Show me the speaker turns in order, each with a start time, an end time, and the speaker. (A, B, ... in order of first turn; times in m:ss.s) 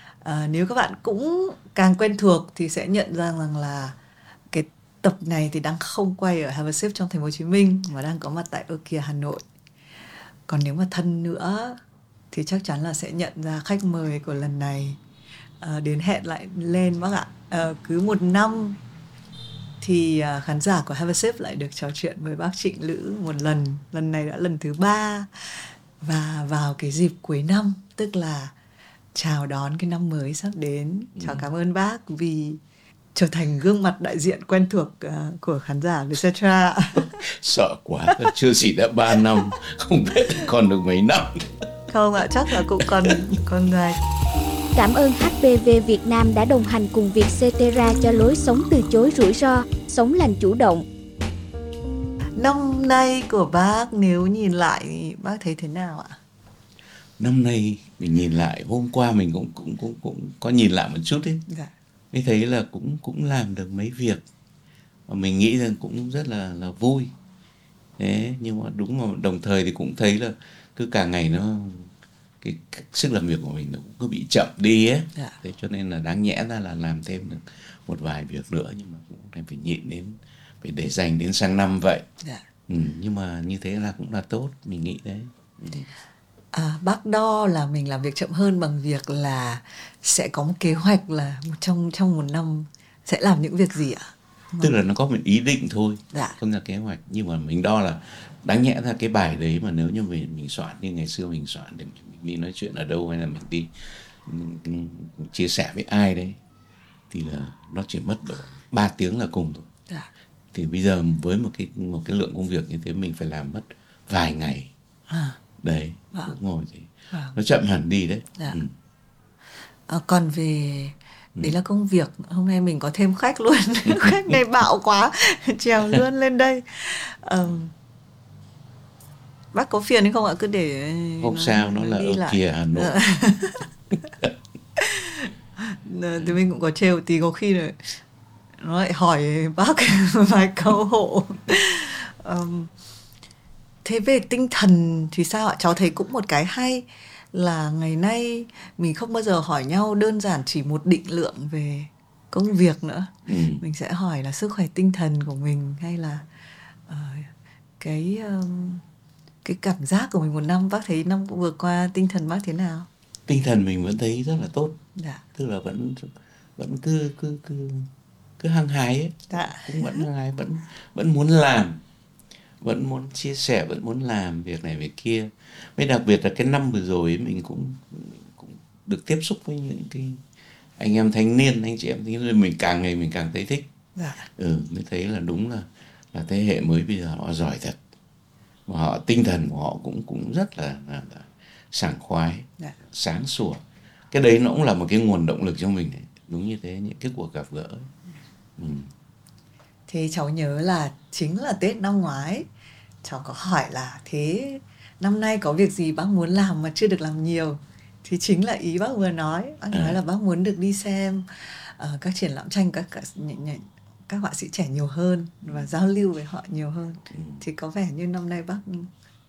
0:00.2-0:04.0 A
0:04.5-0:09.4 A
0:10.5-0:11.8 A
0:12.3-0:15.0 A
0:15.6-0:18.8 A
0:19.8-0:28.5 A
0:29.1-0:32.6 A
0:31.2-0:31.4 B
0:33.2-0:37.2 A
0:37.0-0:41.5 B
0:41.9-0:44.0 A
0:44.8-0:50.8 C
0:52.4-0:56.2 A
0:57.2-1:01.4 B
1:02.1-1:04.2 B
1:05.1-1:07.1 B
1:08.0-1:11.9 B
1:12.4-1:22.1 B
1:22.7-1:25.9 B
1:26.5-1:34.7 A
1:34.6-1:43.7 B
1:44.2-1:46.4 B
1:47.1-1:49.7 B
1:50.5-1:54.7 B
1:55.1-1:55.4 A
1:55.6-1:58.7 B
1:59.9-2:07.7 A
2:09.5-2:13.7 A
2:11.2-2:13.0 B
2:14.8-2:18.0 A
2:18.6-2:22.7 A
2:23.8-2:36.3 A
2:33.3-2:33.6 B
2:36.9-2:38.8 A
2:39.4-2:42.9 A
2:43.3-2:44.8 B
2:45.0-2:45.2 A
2:45.3-2:51.8 B
2:49.3-2:50.0 A
2:52.6-3:00.2 B
3:00.8-3:03.7 B
3:04.0-3:04.3 A
3:04.4-3:07.8 B
3:08.7-3:17.9 B
3:18.6-3:18.9 B
3:19.9-3:22.5 A
3:23.0-3:38.9 A
3:29.7-3:30.0 B
3:37.1-3:37.4 B